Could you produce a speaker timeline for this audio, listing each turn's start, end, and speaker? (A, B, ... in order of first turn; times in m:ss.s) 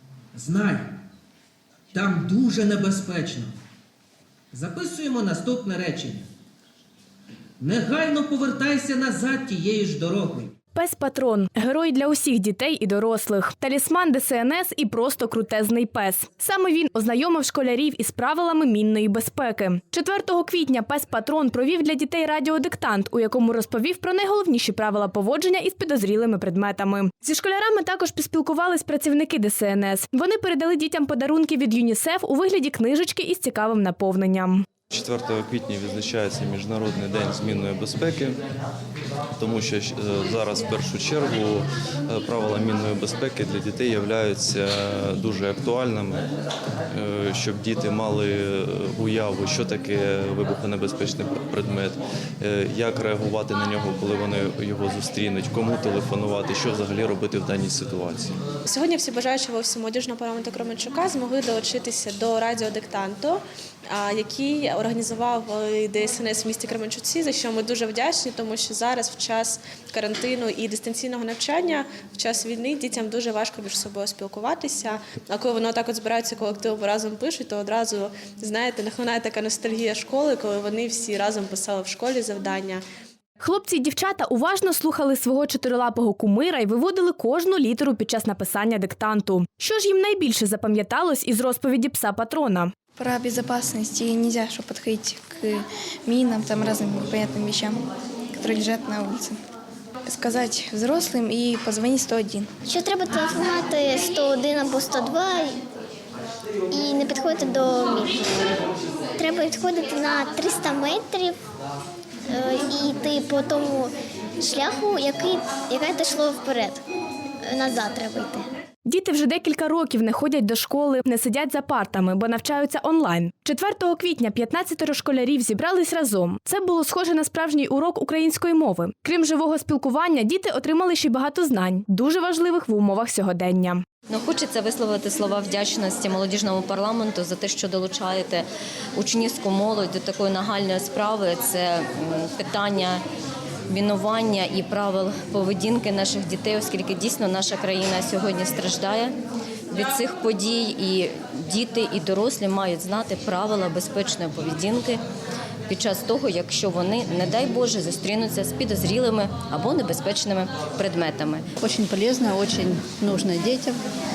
0:00.3-0:00.9 A
0:01.9-0:03.5 A
0:04.5-0:06.3 A
0:07.6-0:10.6 A
0:10.8-0:34.6 B
0:34.9-0:38.4 C
0:39.4-0:46.3 C
0:46.9-0:58.4 C
0:58.7-1:22.8 D
1:23.4-1:32.7 B
1:33.0-1:39.4 E
1:40.0-1:42.5 E
1:42.7-1:45.6 F
1:46.7-1:48.3 F
1:49.2-1:51.4 F
1:52.3-1:56.8 F
1:57.4-1:58.4 F
1:58.9-2:13.8 B
2:14.1-2:18.4 G
2:19.0-2:23.0 G
2:23.7-2:29.1 G
2:29.7-2:35.0 G
2:35.7-2:41.4 G
2:41.6-2:43.8 H